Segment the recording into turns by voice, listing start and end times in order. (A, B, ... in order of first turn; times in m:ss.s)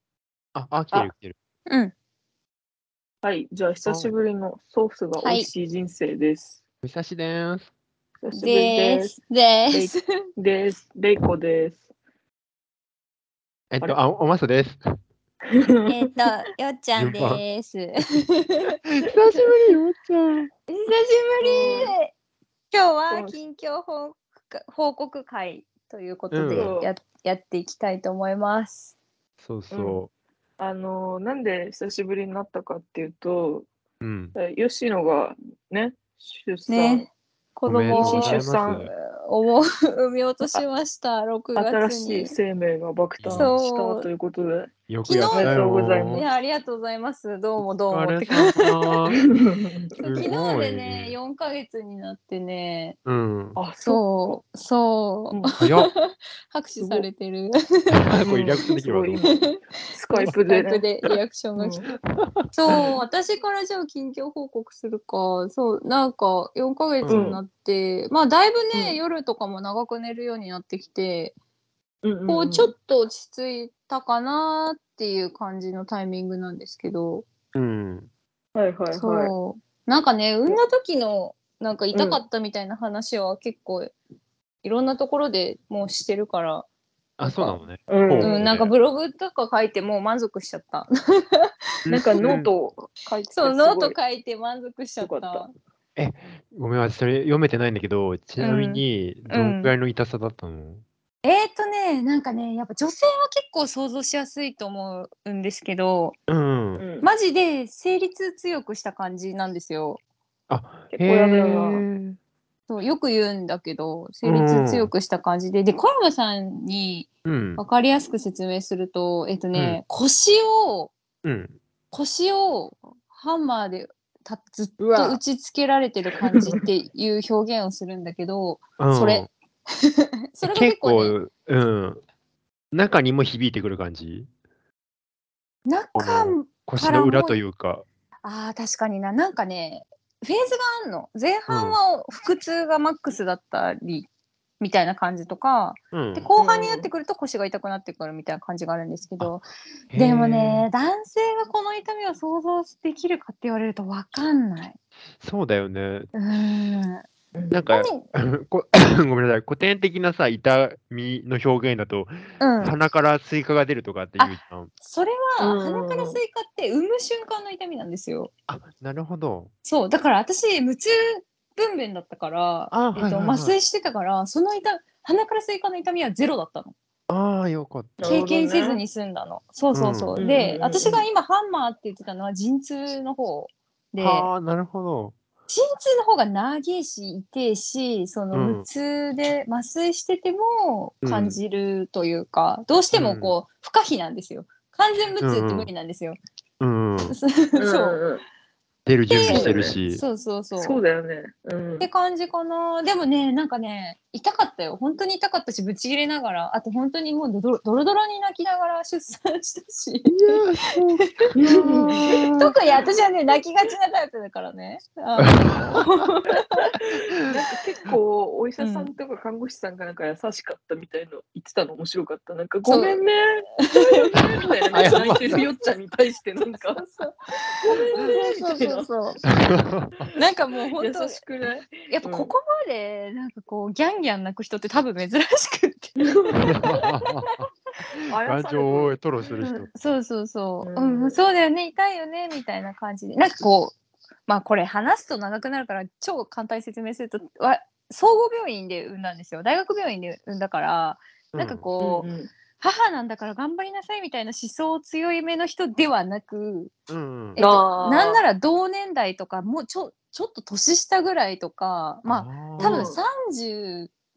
0:00.5-0:01.4 A
0:01.7-0:01.9 B
0:03.2-0:06.6 C
0:03.8-0:04.1 A
0:05.2-0:05.5 B
0:06.8-0:07.7 A
0:08.2-0:09.2 C
0:08.3-0:10.0 B
0:09.7-0:11.9 C
0:13.7-0:15.0 A
0:15.5-0:16.0 C
0:15.9-0:18.8 B
0:17.0-0:17.4 A
0:18.9-0:20.5 A
0:20.7-0:22.1 B
0:21.4-0:21.9 C
0:22.7-0:28.9 B
0:23.1-0:23.4 C
0:26.3-0:26.7 A
0:26.5-0:26.9 C
0:29.4-0:30.1 A
0:29.7-0:30.0 C
0:30.6-0:33.7 C
0:34.0-0:34.3 A
0:34.4-0:37.1 C
0:36.7-0:42.3 B
0:37.7-0:38.9 A
0:37.9-0:38.9 C
0:41.5-0:44.7 C
0:43.2-0:43.5 A
0:43.3-0:44.1 B
0:44.9-0:46.2 A
0:45.0-0:48.9 B
0:45.3-0:46.2 C
0:47.9-0:49.3 A
0:49.4-0:49.9 C
0:50.0-0:51.2 A
0:50.0-0:53.0 B
0:53.0-0:53.6 A
0:53.6-0:54.4 C
0:53.8-0:58.0 B
0:55.6-0:55.9 A
0:56.8-0:57.1 C
0:57.9-0:59.2 A
0:58.2-1:00.8 C
0:59.2-0:59.6 B
1:00.1-1:01.8 B
1:01.6-1:01.9 C
1:02.1-1:02.4 A
1:02.5-1:11.4 B
1:07.0-1:07.4 A
1:07.1-1:07.4 C
1:08.7-1:09.0 C
1:12.0-1:12.7 C
1:12.3-1:17.2 B
1:17.5-1:18.1 A
1:18.5-1:19.3 C
1:18.9-1:23.9 B
1:21.9-1:22.2 C
1:24.6-1:26.6 B
1:27.2-1:28.7 A
1:27.2-1:27.6 B
1:27.9-1:28.4 C
1:28.2-1:31.5 B
1:31.8-1:32.5 A
1:31.9-1:34.0 C
1:33.3-1:35.5 B
1:35.0-1:35.5 C
1:36.0-1:40.8 A
1:38.4-1:39.7 B
1:41.2-1:46.2 B
1:46.3-1:46.8 A
1:46.8-1:47.1 C
1:47.0-1:50.0 B
1:50.5-1:52.2 A
1:50.9-1:51.8 C
1:52.7-2:00.9 B
1:54.2-1:54.9 A
1:57.2-1:57.6 A
1:59.5-1:59.8 A
2:01.2-2:01.6 A
2:01.9-2:11.2 B
2:04.8-2:05.2 C
2:06.3-2:06.6 C
2:08.8-2:09.3 A
2:10.4-2:12.0 A
2:12.7-2:14.3 A
2:15.6-2:17.4 B
2:15.9-2:17.8 A
2:18.2-2:24.1 B
2:21.5-2:21.8 A
2:24.6-2:34.8 B
2:25.9-2:26.3 A
2:26.4-2:26.9 C
2:29.9-2:30.6 A
2:35.2-2:36.1 A
2:36.1-2:37.0 B
2:37.3-2:37.6 C
2:37.5-2:44.7 A
2:37.7-2:38.0 B
2:42.4-2:42.7 B
2:44.2-2:48.3 B
2:45.4-2:46.2 C
2:48.5-2:49.5 A
2:49.6-2:56.7 B
2:52.7-2:53.5 A
2:57.1-2:58.2 A
2:58.0-2:58.8 C
2:58.0-3:04.3 B
2:59.7-3:00.2 A
3:00.2-3:01.0 C
3:04.0-3:05.2 A
3:05.5-3:16.2 B
3:08.3-3:08.7 A
3:11.0-3:11.4 A
3:12.9-3:13.3 A
3:15.2-3:15.7 A
3:16.6-3:17.2 A
3:17.1-3:18.0 B
3:17.6-3:18.2 C
3:18.8-3:20.0 A
3:19.1-3:20.8 B
3:19.3-3:19.7 C
3:20.6-3:21.9 C
3:21.8-3:36.7 B
3:30.0-3:31.0 A
3:31.4-3:32.5 C
3:32.0-3:32.3 A
3:35.2-3:35.8 A
3:36.3-3:46.8 C
3:38.6-3:38.9 B
3:42.6-3:43.0 B
3:43.6-3:45.6 B
3:44.7-3:45.4 A
3:46.8-3:49.2 B
3:47.6-3:48.9 C
3:49.3-3:50.1 A
3:50.2-3:51.2 B
3:50.8-3:52.3 C
3:51.8-3:56.8 B
3:56.0-3:57.3 C
3:56.5-3:59.7 A
3:58.1-3:59.6 C
3:59.7-4:03.8 B
4:00.6-4:01.2 C
4:04.3-4:12.1 B
4:11.3-4:11.6 A
4:11.8-4:12.3 C
4:12.6-4:16.7 B
4:16.9-4:17.4 A
4:17.4-4:23.9 B
4:17.4-4:18.2 C
4:22.0-4:22.9 A
4:22.6-4:23.0 C